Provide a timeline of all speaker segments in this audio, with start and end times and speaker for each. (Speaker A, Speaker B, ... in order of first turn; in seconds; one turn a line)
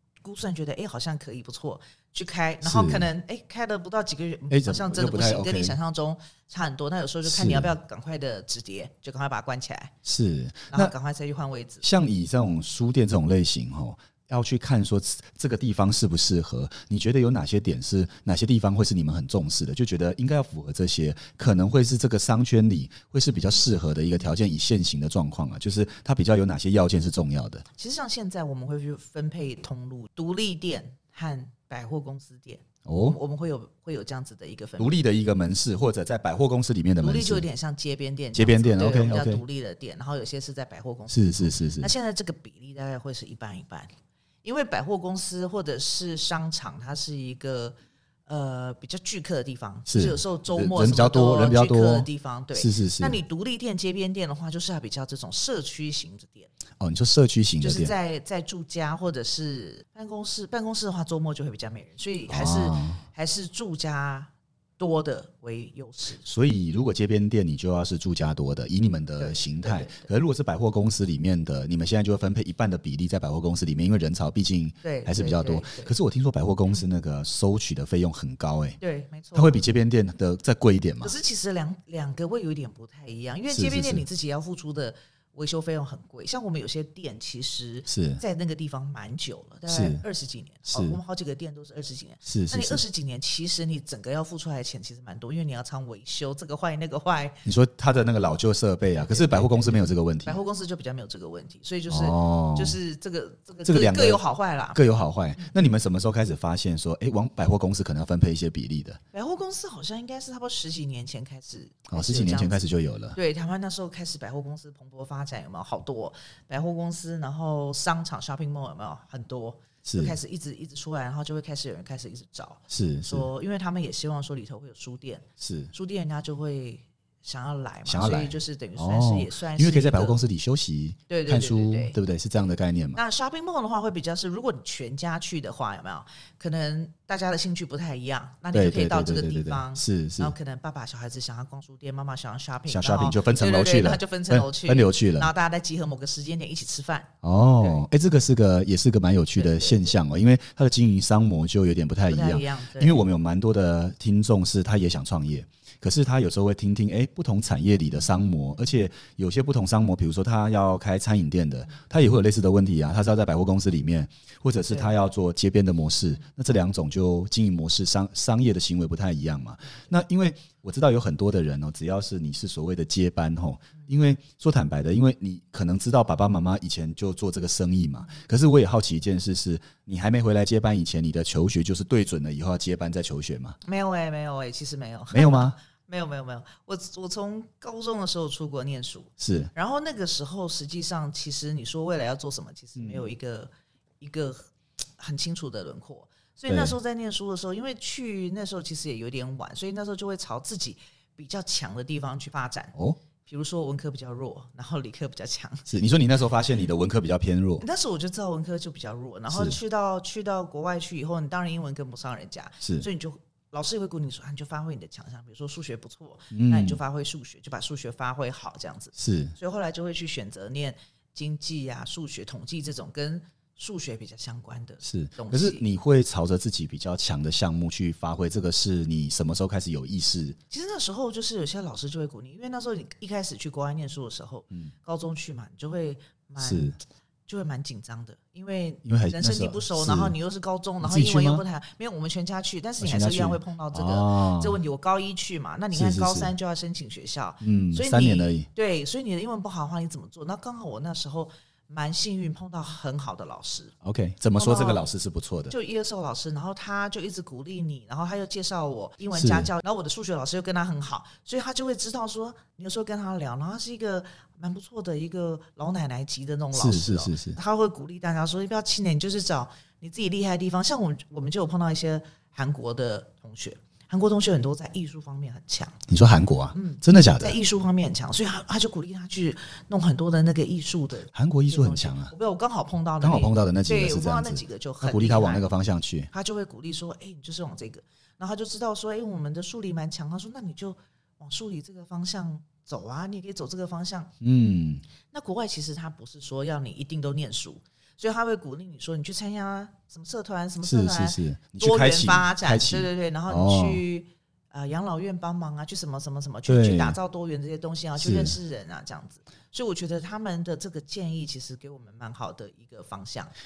Speaker A: 0.2-9.9
Speaker B: 2.6-3.1
Speaker B: 4.5-5.8
Speaker B: 7.2-7.7
Speaker B: 10.0-10.9
Speaker A: 10.7-11.8
Speaker B: 11.8-27.6
Speaker A: 27.8-35.0
Speaker B: 32.8-33.2
Speaker B: 34.8-37.4
Speaker A: 37.0-43.9
Speaker B: 38.3-39.4
Speaker B: 41.1-41.9
Speaker A: 44.4-47.7
Speaker A: 48.3-56.5
Speaker B: 49.9-53.2
Speaker B: 56.8-57.9
Speaker A: 57.6-66.2
Speaker B: 62.3-63.0
Speaker B: 66.2-78.8
Speaker A: 69.2-70.1
Speaker A: 74.8-75.9
Speaker A: 78.8-79.5
Speaker B: 79.3-81.1
Speaker A: 81.0-97.4
Speaker B: 83.5-84.0
Speaker B: 87.9-88.2
Speaker B: 89.7-90.0
Speaker B: 90.7-91.0
Speaker B: 92.2-92.8
Speaker B: 97.4-100.4
Speaker A: 98.9-104.8
Speaker B: 101.9-102.8
Speaker B: 103.6-104.2
Speaker B: 104.7-109.0
Speaker A: 109.1-130.2
Speaker B: 111.9-113.2
Speaker B: 119.8-120.2
Speaker B: 122.7-123.3
Speaker B: 125.4-125.7
Speaker B: 127.8-133.0
Speaker A: 131.1-132.0
Speaker A: 132.9-147.9
Speaker B: 138.5-140.3
Speaker B: 142.7-145.3
Speaker B: 147.2-183.6
Speaker A: 149.3-149.9
Speaker A: 152.1-153.0
Speaker A: 183.6-202.7
Speaker B: 185.1-185.6
Speaker B: 189.2-189.5
Speaker B: 192.8-193.0
Speaker B: 196.5-196.8
Speaker A: 203.2-205.7
Speaker B: 205.7-207.6
Speaker A: 207.6-225.6
Speaker B: 209.3-209.6
Speaker B: 216.3-216.8
Speaker B: 218.9-219.3
Speaker B: 224.8-230.4
Speaker A: 230.5-236.7
Speaker B: 236.4-236.8
Speaker A: 237.3-253.7
Speaker B: 238.8-240.1
Speaker B: 240.8-241.4
Speaker B: 242.8-244.6
Speaker B: 245.7-246.3
Speaker B: 247.4-248.4
Speaker B: 253.8-255.5
Speaker A: 254.3-254.8
Speaker A: 255.5-275.8
Speaker B: 259.1-259.5
Speaker B: 266.5-267.4
Speaker B: 275.9-277.4
Speaker A: 276.5-285.5
Speaker B: 281.1-282.1
Speaker B: 283.0-286.1
Speaker A: 286.1-294.1
Speaker B: 294.2-294.8
Speaker A: 295.1-313.3
Speaker B: 300.6-303.8
Speaker B: 306.5-307.0
Speaker B: 308.0-308.4